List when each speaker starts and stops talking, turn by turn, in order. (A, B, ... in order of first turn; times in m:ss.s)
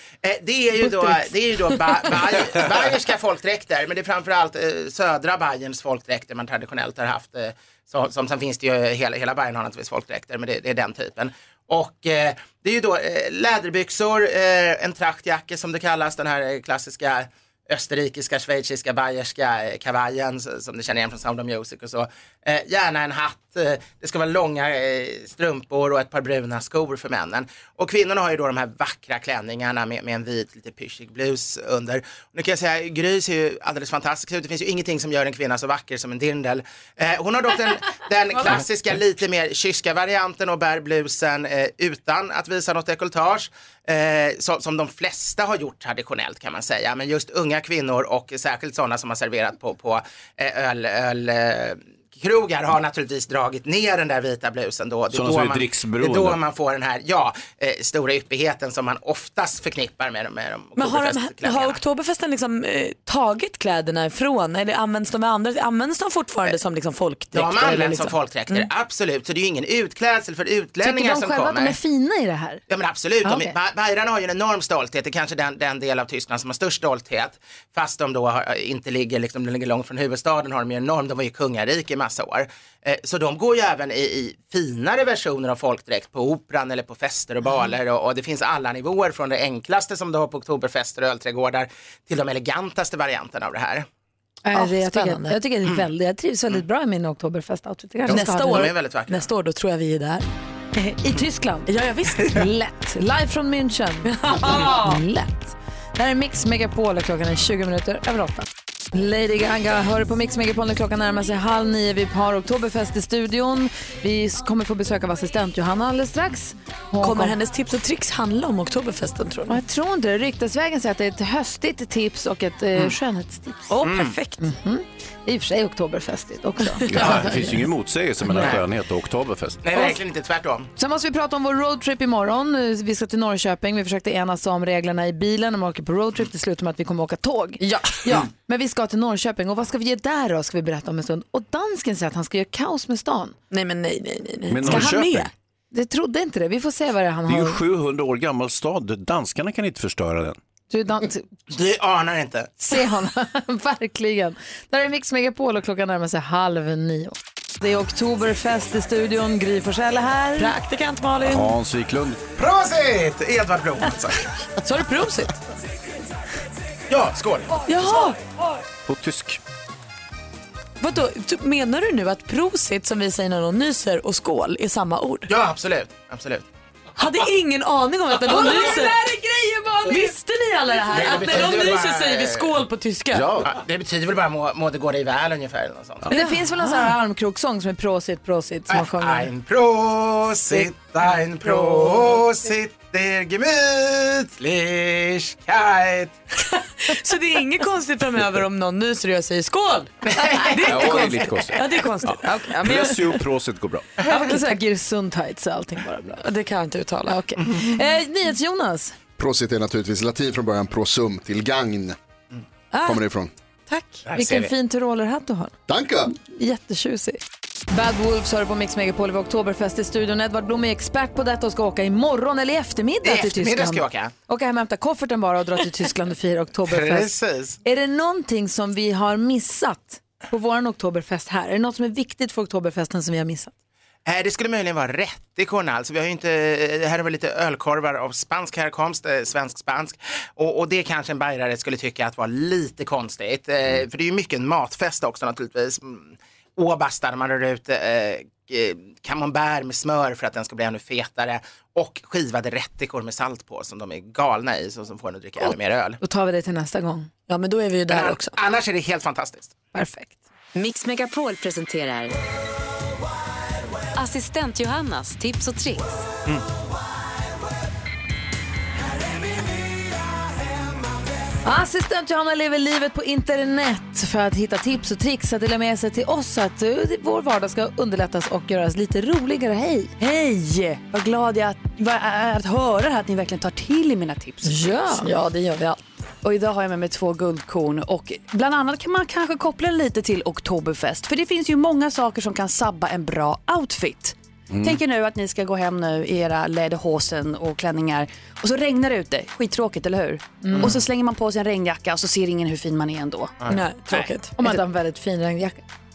0:00.2-1:01.8 A
0:00.8-0:02.6 B
0:55.1-0:56.4 C
1:00.8-1:08.7 B
1:07.3-1:11.8 A
1:10.8-1:12.6 D
1:12.7-1:33.9 A
1:13.2-1:13.6 D
1:34.4-1:38.7 D
1:34.5-1:35.4 B
1:38.1-1:39.3 A
1:38.1-1:40.3 B
1:40.8-1:57.4 D
1:41.7-1:42.5 B
1:44.1-1:45.1 B
1:57.0-1:59.6 B
1:59.5-2:03.6 D
2:03.7-2:04.5 B
2:03.8-2:04.2 A
2:04.4-2:07.6 D
2:06.9-2:09.6 C
2:08.3-2:08.6 A
2:09.6-2:10.7 A
2:10.8-2:23.4 D
2:23.5-2:25.3 B
2:24.5-2:25.3 C
2:24.7-2:25.0 D
2:25.7-2:27.6 D
2:27.3-2:30.4 C
2:30.7-2:31.3 D
2:31.5-2:32.7 A
2:32.6-2:40.6 D
2:40.4-2:41.5 B
2:41.2-2:42.2 C
2:42.4-2:44.3 A
2:44.6-2:45.3 B
2:46.9-2:47.6 A
2:47.6-2:48.2 B
2:48.9-2:49.4 C
2:50.8-2:55.3 B
2:55.3-2:56.5 A
2:57.0-2:59.2 B
2:58.4-3:00.1 D
2:59.8-3:03.3 B
3:00.8-3:02.6 A
3:01.3-3:01.6 D
3:03.1-3:03.5 C
3:03.4-3:06.2 A
3:06.1-3:06.9 B
3:06.1-3:09.3 D
3:08.7-3:16.2 A
3:11.5-3:11.9 D
3:16.4-3:23.2 B
3:20.0-3:21.1 A
3:20.6-3:23.9 C
3:22.3-3:22.8 D
3:24.0-3:26.2 D
3:24.1-3:24.6 B
3:26.2-3:27.3 B
3:27.1-3:29.0 D
3:29.2-3:32.0 E
3:32.7-3:33.0 B
3:32.8-3:33.3 E
3:33.7-3:34.0 B
3:34.0-3:34.5 A
3:34.2-3:35.5 D
3:35.7-3:36.1 E
3:36.1-3:37.2 D
3:37.7-3:47.1 D
3:43.0-3:44.1 A
3:46.6-3:47.6 A
3:47.6-3:53.5 D
3:54.1-4:16.0 A
4:16.0-4:17.1 D
4:17.3-4:18.4 B
4:17.9-4:19.6 A
4:19.7-4:20.2 D
4:20.6-4:22.2 F
4:24.0-4:26.0 F
4:31.4-4:39.9 D
4:40.0-4:45.0 G
4:44.5-4:45.1 D
4:45.0-4:45.8 B
4:46.2-5:03.4 G
4:54.5-4:54.8 C
5:00.4-5:00.8 D
5:00.6-5:00.8 A
5:03.4-5:03.7 A
5:03.5-5:04.5 B
5:04.0-5:05.6 D